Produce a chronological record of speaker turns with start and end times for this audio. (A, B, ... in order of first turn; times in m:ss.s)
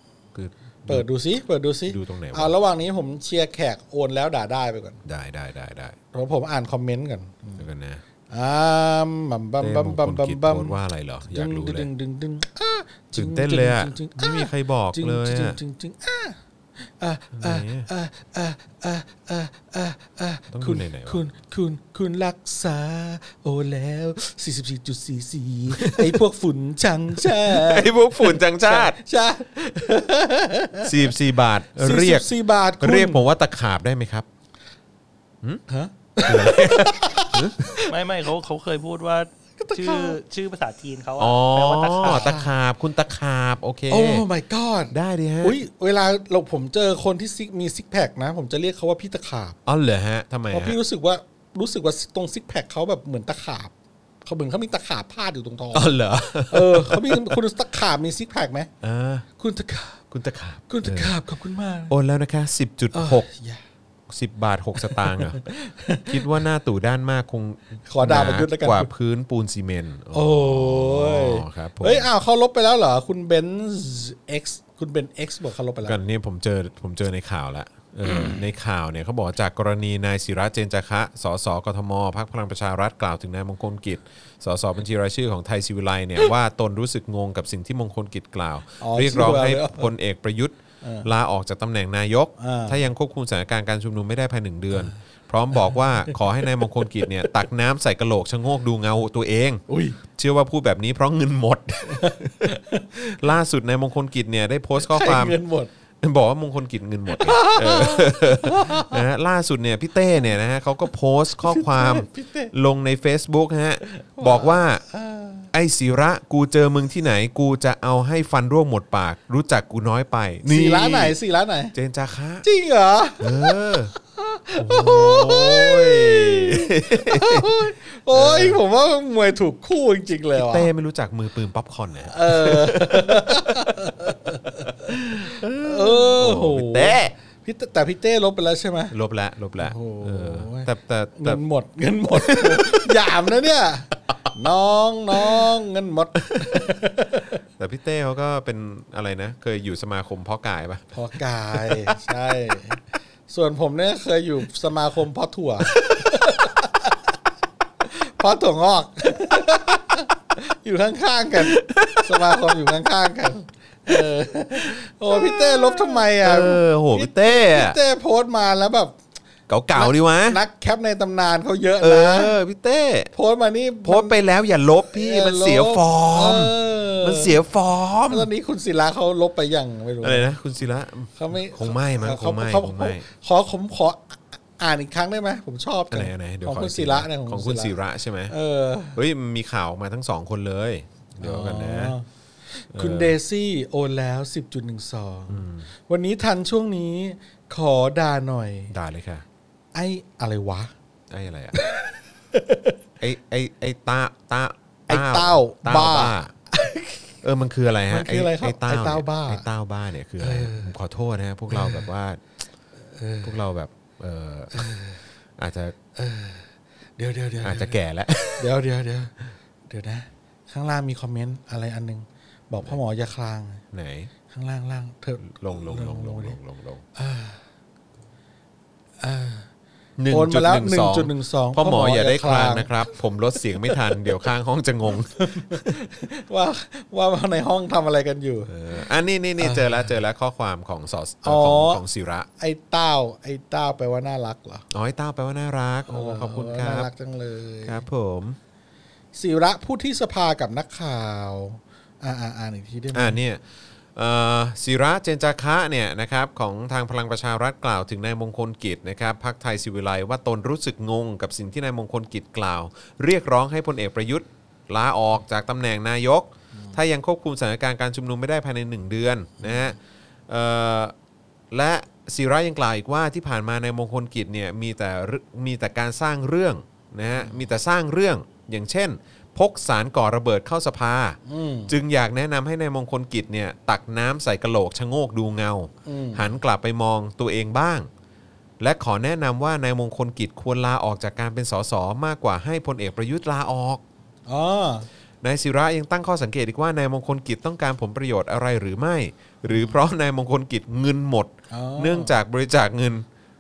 0:00.3-0:01.1 A
0:00.9-0:05.0 B
0:01.9-0:02.5 A
0:05.0-0:06.0 A
0:06.1-0:07.6 B
0:07.6-0:08.0 A
0:08.3-0:10.8 B
0:09.6-0:11.9 A
0:11.3-0:31.1 B
0:13.1-0:15.6 A
0:17.4-0:17.9 A
0:20.5-0:21.2 A
0:25.7-0:26.2 A
0:27.2-0:29.0 A
0:30.8-0:32.3 A
0:31.8-0:33.2 B
0:32.8-0:34.3 A
0:35.7-0:37.9 B
0:36.2-0:37.7 A
0:37.9-0:42.4 C
0:39.6-0:40.2 B
0:41.2-0:44.2 A
0:42.0-0:42.5 B
0:43.9-0:49.6 B
0:44.9-0:45.6 A
0:49.7-0:50.8 A
0:50.5-0:53.7 B
0:54.2-0:55.9 B
0:55.7-0:57.4 A
0:56.5-0:58.7 B
0:58.8-0:59.3 A
0:59.4-1:00.0 B
1:00.1-1:01.2 A
1:00.7-1:01.9 B
1:01.9-1:03.3 A
1:02.9-1:03.6 B
1:04.1-1:05.5 A
1:04.8-1:06.3 B
1:06.1-1:12.1 A
1:07.9-1:08.9 B
1:10.1-1:16.0 B
1:15.8-1:45.4 A
1:18.1-1:18.4 B
1:28.8-1:29.9 B
1:32.4-1:32.8 B
1:35.7-1:36.2 B
1:39.7-1:40.0 B
1:41.9-1:42.9 B
1:44.8-1:45.7 B
1:46.0-1:54.8 A
1:47.1-1:49.0 B
1:51.4-1:52.5 B
1:53.9-1:55.5 B
1:55.5-2:01.2 A
2:00.5-2:01.7 B
2:01.7-2:02.5 A
2:02.4-2:10.7 B
2:03.2-2:03.9 A
2:04.6-2:08.6 A
2:10.3-2:13.7 A
2:12.1-2:18.9 B
2:14.9-2:17.1 A
2:18.9-2:21.4 A
2:19.6-2:27.4 B
2:22.1-2:23.0 A
2:25.1-2:25.5 A
2:26.3-2:26.7 A
2:27.6-2:30.9 A
2:30.9-2:37.0 B
2:31.5-2:32.0 A
2:35.7-2:36.2 A
2:37.8-2:49.0 B
2:41.4-2:42.3 A
2:44.6-2:47.8 A
2:49.5-2:50.4 A
2:49.7-2:52.4 B
2:51.8-2:53.1 A
2:53.1-2:54.2 B
2:53.8-2:58.3 A
2:54.9-2:57.4 B
2:58.1-3:00.3 B
3:00.0-3:03.0 A
3:01.2-3:07.8 B
3:05.9-3:08.3 A
3:08.3-3:09.0 B
3:09.0-3:12.0 A
3:11.2-3:18.7 B
3:12.7-3:13.2 A
3:15.3-3:15.7 A
3:18.7-3:19.2 A
3:19.7-3:20.7 B
3:21.1-3:21.6 A
3:21.6-3:22.7 B
3:23.0-3:26.3 A
3:24.9-3:27.1 B
3:27.2-3:32.2 A
3:27.9-3:29.4 B
3:30.2-3:30.7 B
3:31.5-3:31.9 B
3:32.9-3:33.4 B
3:33.2-3:34.8 A
3:34.5-3:35.0 B
3:35.4-3:35.8 A
3:36.0-3:37.8 B
3:37.4-3:38.5 A
3:38.4-3:39.2 B
3:39.7-3:43.6 B
3:43.7-3:44.1 A
3:44.3-3:46.4 B
3:45.3-3:46.8 A
3:47.0-3:47.4 B
3:49.0-3:49.5 B
3:50.0-3:55.8 A
3:50.1-3:52.7 B
3:53.6-3:54.0 B
3:55.1-3:58.5 B
3:58.5-4:02.3 A
3:59.4-3:59.9 B
4:01.2-4:01.8 B
4:02.4-4:04.6 B
4:04.7-4:06.9 A
4:05.9-4:07.8 B
4:07.6-4:08.4 A
4:09.2-4:13.2 B
4:12.9-4:13.4 A
4:14.0-4:29.8 A
4:30.3-4:30.9 A
4:31.5-4:47.9 A
4:41.2-4:41.7 B
4:45.9-4:46.3 B
4:48.6-4:53.8 A
4:54.3-4:54.9 B
4:55.2-5:03.1 A
4:59.5-4:59.8 B
5:01.5-5:02.2 B